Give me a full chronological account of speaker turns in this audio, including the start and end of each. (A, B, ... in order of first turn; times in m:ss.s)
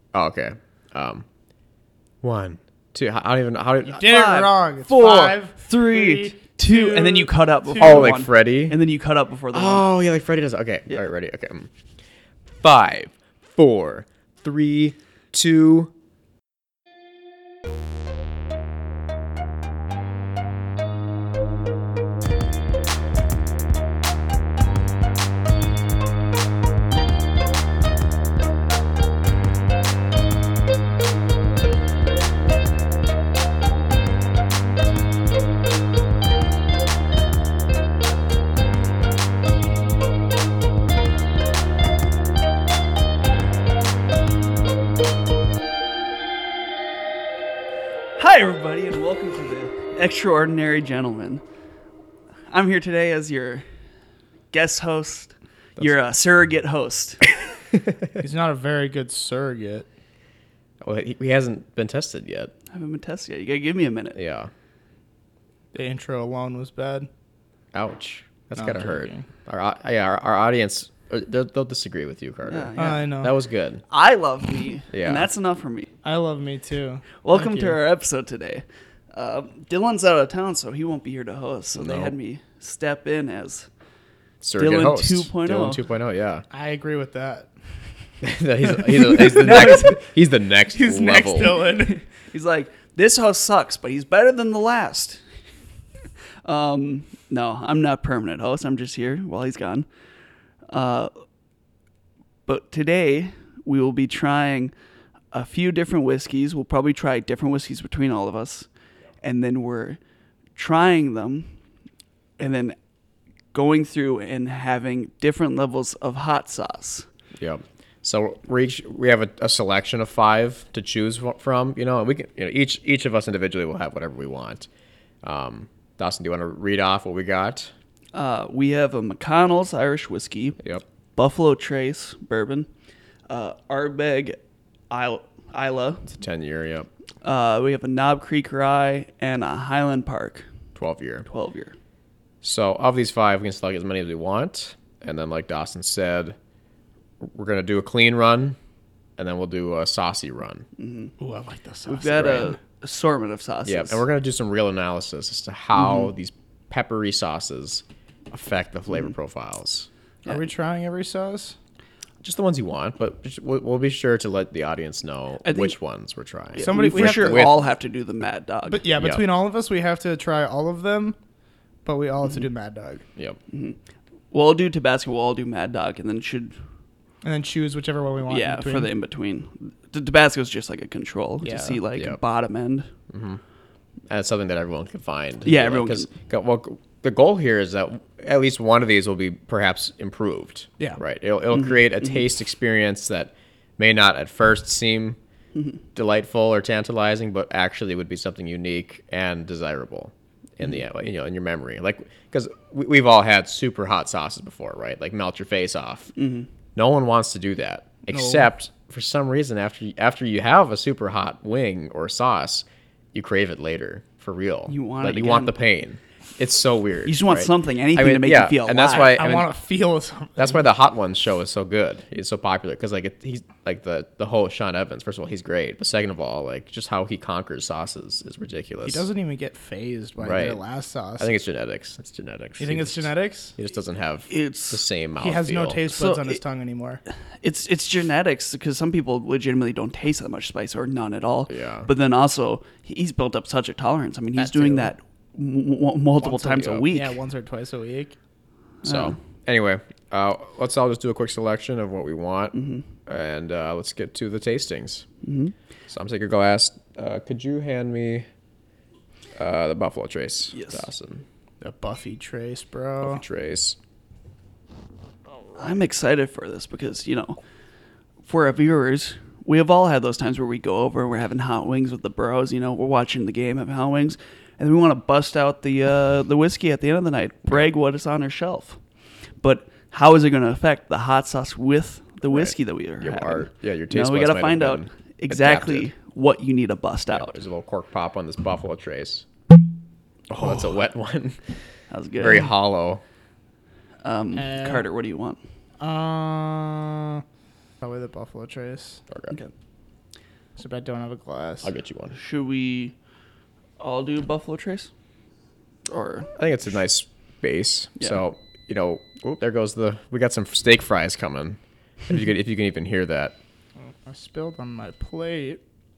0:00.1-0:01.3 A
0:02.2-0:04.3 A
0:03.9-0:09.8 B
0:04.0-0:08.2 C
0:07.8-0:08.8 A
0:09.5-0:11.7 A
0:12.6-0:15.9 A
0:48.2-0:51.4 B
0:52.5-0:53.7 B
0:54.5-0:57.3 B
0:58.2-0:59.9 C
1:00.8-1:02.5 A
1:02.7-1:04.2 B
1:04.2-1:04.5 A
1:05.7-1:07.1 C
1:07.7-1:13.8 A
1:08.6-1:09.3 C
1:12.5-1:13.1 B
1:12.8-1:13.4 C
1:13.9-1:15.9 B
1:14.9-1:15.3 A
1:16.0-1:17.8 C
1:17.2-1:23.7 B
1:21.8-1:22.1 A
1:24.4-1:26.5 A
1:24.6-1:25.8 B
1:26.5-1:27.5 C
1:28.2-1:31.6 A
1:28.9-1:30.0 C
1:30.7-1:32.0 C
1:31.7-1:35.2 B
1:36.4-1:39.9 B
1:40.7-1:41.1 B
1:42.5-1:44.7 B
1:45.3-1:48.7 B
1:49.2-1:50.0 B
1:50.6-1:51.6 B
1:52.4-1:52.8 B
1:53.5-1:57.1 B
1:57.4-2:04.7 A
2:05.2-2:07.7 A
2:08.1-2:10.6 B
2:11.2-2:12.7 B
2:13.3-2:16.1 B
2:16.0-2:16.9 A
2:17.2-2:20.5 B
2:20.8-2:21.2 A
2:21.2-2:21.8 B
2:22.4-2:26.4 A
2:27.2-2:28.6 A
2:29.2-2:30.7 A
2:30.8-2:31.1 B
2:31.2-2:32.6 C
2:31.9-2:34.0 B
2:32.2-2:32.5 A
2:33.7-2:39.9 A
2:40.3-2:41.6 C
2:42.2-2:47.6 A
2:45.4-2:45.8 B
2:46.6-2:48.9 B
2:46.6-2:47.5 C
2:48.7-2:51.2 C
2:49.0-2:49.2 A
2:51.8-2:53.0 C
2:53.5-2:53.8 B
2:54.3-2:56.6 B
2:57.2-2:58.9 C
2:58.3-3:02.9 B
3:01.4-3:01.8 C
3:03.1-3:03.4 A
3:04.1-3:15.2 A
3:05.4-3:06.1 B
3:16.0-3:26.1 A
3:26.2-3:26.5 B
3:26.8-3:39.5 A
3:28.1-3:28.5 C
3:34.7-3:35.6 B
3:37.0-3:39.2 B
3:39.1-3:40.6 C
3:40.4-3:49.1 A
3:48.8-3:51.3 C
3:50.2-3:50.6 A
3:51.2-3:55.8 A
3:52.6-3:53.6 C
3:54.3-3:54.8 B
3:55.2-3:57.0 C
3:55.9-3:56.4 B
3:57.4-4:07.2 B
4:01.5-4:01.9 A
4:04.4-4:04.9 A
4:06.3-4:06.9 A
4:06.9-4:08.2 C
4:08.8-4:09.2 B
4:08.8-4:15.1 A
4:12.5-4:12.8 B
4:15.2-4:15.5 B
4:15.9-4:18.3 A
4:19.4-4:21.2 A
4:20.5-4:20.8 B
4:21.6-4:23.2 C
4:23.0-4:23.8 A
4:25.6-4:27.4 B
4:28.2-4:38.8 B
4:39.4-4:47.3 B
4:42.3-4:45.9 A
4:47.1-4:49.2 A
4:50.3-4:51.4 A
4:51.9-4:52.5 B
4:52.2-4:53.0 A
4:54.0-4:55.4 B
4:54.4-4:54.9 C
4:55.8-4:57.2 C
4:57.8-4:59.0 C
4:59.1-4:59.4 A
5:00.6-5:01.7 C
5:01.6-5:02.2 A
5:02.1-5:03.0 B
5:03.8-5:04.9 B
5:05.9-5:06.3 B
5:06.4-5:13.4 A
5:13.8-5:15.6 C